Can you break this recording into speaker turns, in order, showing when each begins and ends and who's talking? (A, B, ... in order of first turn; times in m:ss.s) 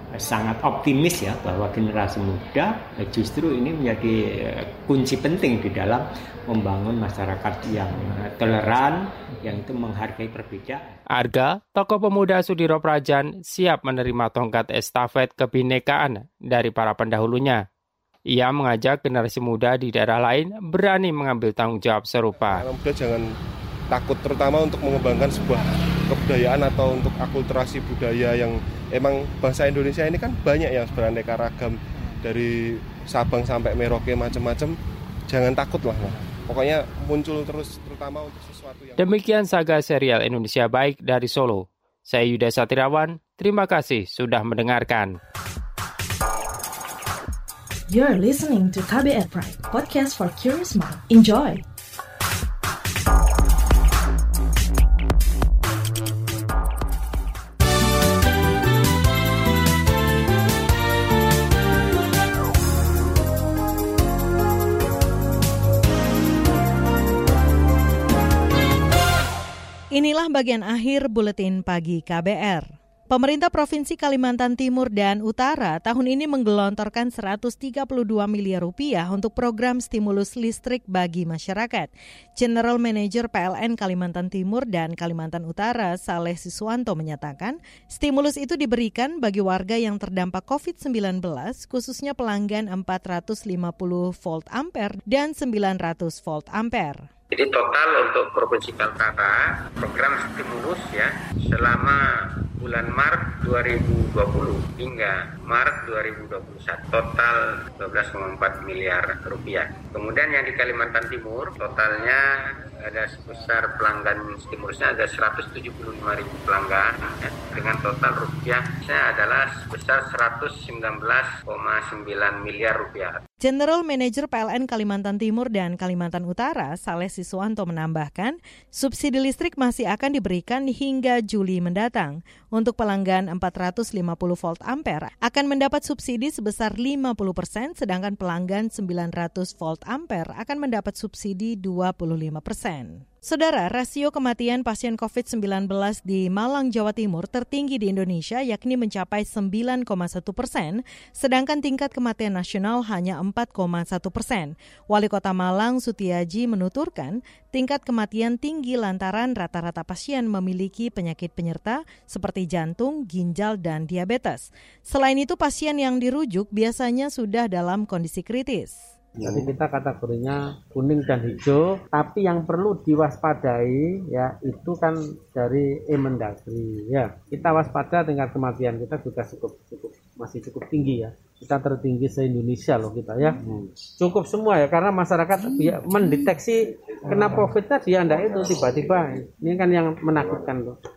0:00.2-0:11.0 A
0:11.1-0:17.6 B
0:18.3-0:22.6 B
0:22.5-0:23.3 C
0:23.9-0:34.8 C
0:35.3-0:39.0 C
0:39.0-0:45.2 B
0:47.9-0:51.6 D
1:09.9-1:37.1 E
1:37.4-1:42.0 F
1:42.6-1:52.2 F
1:52.9-2:03.1 F
2:03.4-2:48.9 E
2:49.2-3:10.8 G